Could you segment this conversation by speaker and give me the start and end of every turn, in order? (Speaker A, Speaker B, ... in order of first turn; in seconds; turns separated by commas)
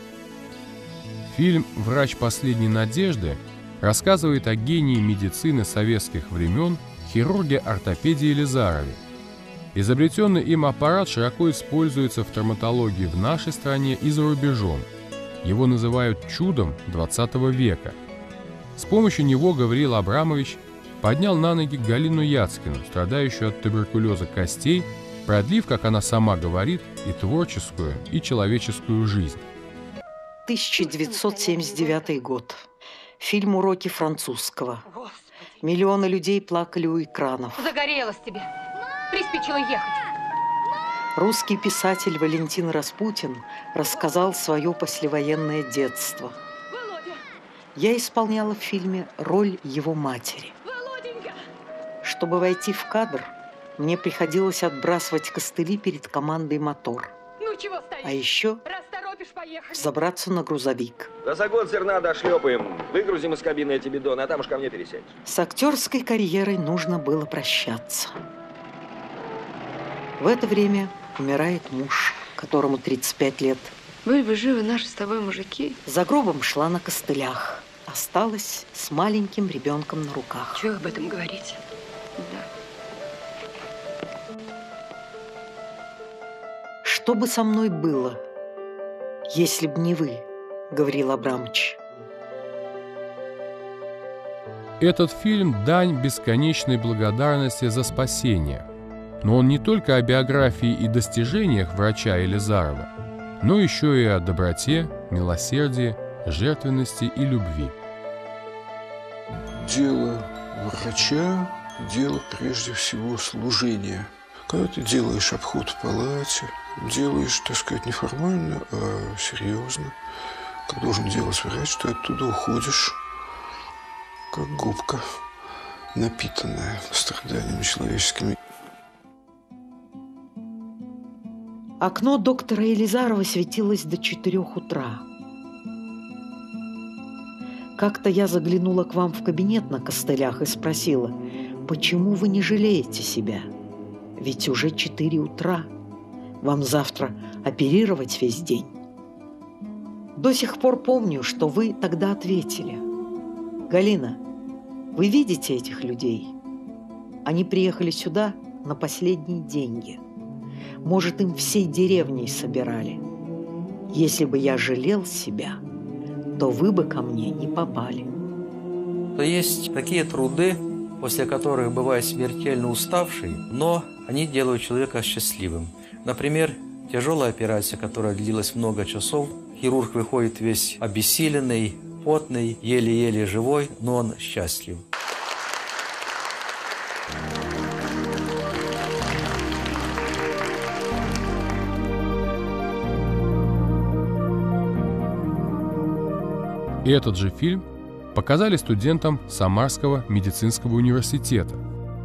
Speaker A: 1.3-9.0, Speaker A: 9.7-14.9, Speaker A: 15.4-18.0, Speaker A: 18.8-29.4, Speaker B: 30.5-32.6, Speaker B: 33.2-34.9, Speaker B: 35.6-37.7, Speaker C: 37.6-38.5, Speaker C: 39.1-40.0, Speaker B: 41.2-46.4, Speaker C: 46.7-47.2, Speaker B: 47.8-50.6, Speaker C: 50.7-51.4, Speaker B: 52.0-57.2, Speaker C: 57.4-58.1, Speaker B: 58.0-58.6, Speaker C: 58.7-59.7, Speaker B: 59.7-61.1, Speaker D: 61.2-65.0, Speaker B: 65.2-68.2, Speaker B: 70.2-73.8, Speaker E: 74.0-75.7, Speaker B: 75.8-80.7, Speaker E: 80.6-81.6, Speaker E: 82.2-82.5, Speaker B: 86.8-88.2, Speaker B: 89.3-91.8, Speaker A: 94.8-98.7, Speaker A: 99.2-107.7, Speaker F: 109.6-120.0, Speaker F: 120.7-123.0, Speaker F: 124.3-125.1, Speaker F: 125.9-128.4, Speaker B: 131.8-135.0, Speaker B: 137.8-143.5, Speaker B: 144.2-145.7, Speaker B: 146.4-148.8, Speaker B: 150.2-152.8, Speaker B: 153.7-154.2, Speaker B: 154.9-156.3, Speaker B: 157.3-160.0, Speaker B: 160.8-163.0, Speaker B: 163.9-165.6, Speaker B: 166.4-168.2, Speaker G: 169.2-184.8, Speaker A: 196.8-201.6